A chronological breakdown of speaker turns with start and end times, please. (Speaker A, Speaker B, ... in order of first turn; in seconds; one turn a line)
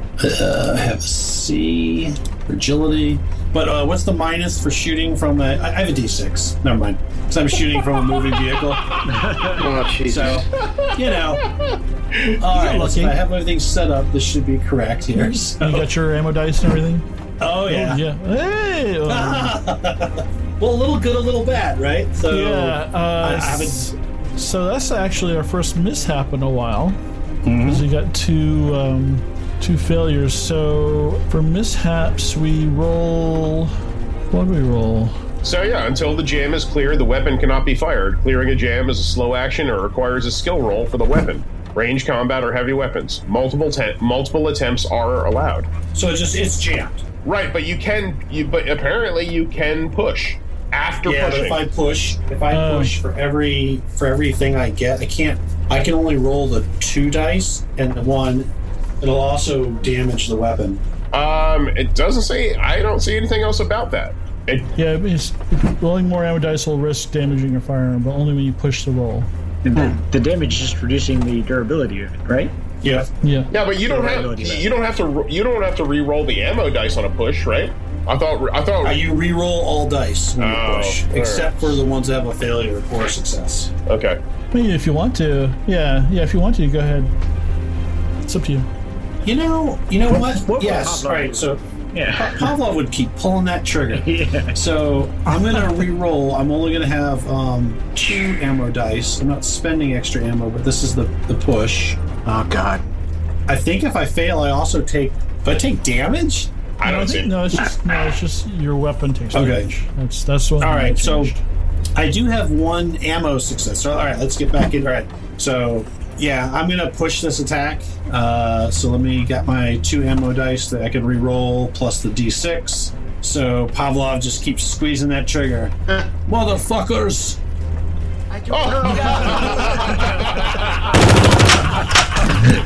Speaker A: 0.2-9.0
Speaker B: 9.1-9.6
Speaker C: 9.5-10.5
Speaker A: 10.1-11.5
Speaker D: 10.6-11.1
Speaker E: 12.3-13.2
Speaker A: 12.4-15.9
Speaker E: 15.2-17.1
Speaker A: 17.4-18.0
Speaker E: 17.6-19.6
Speaker A: 19.1-23.9
Speaker E: 22.3-27.0
Speaker A: 27.4-27.9
Speaker E: 27.6-33.7
Speaker E: 34.3-35.2
Speaker D: 35.4-45.7
Speaker A: 45.9-47.0
Speaker D: 47.2-51.6
Speaker A: 51.0-60.8
Speaker E: 52.5-53.0
Speaker D: 61.1-64.7
Speaker E: 64.8-69.3
Speaker B: 69.6-72.6
Speaker A: 72.8-73.1
Speaker E: 73.2-73.5
Speaker D: 73.5-79.0
Speaker B: 73.8-74.7
Speaker A: 78.8-83.7
Speaker D: 80.4-81.7
Speaker D: 83.9-84.2
Speaker E: 84.5-87.2
Speaker E: 88.3-88.7
Speaker A: 89.2-91.6
Speaker B: 90.1-92.5
Speaker A: 92.2-102.0
Speaker B: 93.9-94.6
Speaker C: 102.2-102.9
Speaker A: 103.5-106.5
Speaker D: 106.8-107.3
Speaker E: 106.8-111.4
Speaker A: 109.3-109.7
Speaker A: 110.6-111.3
Speaker A: 112.0-125.8
Speaker A: 126.3-127.4
Speaker C: 128.3-131.1
Speaker D: 128.5-130.8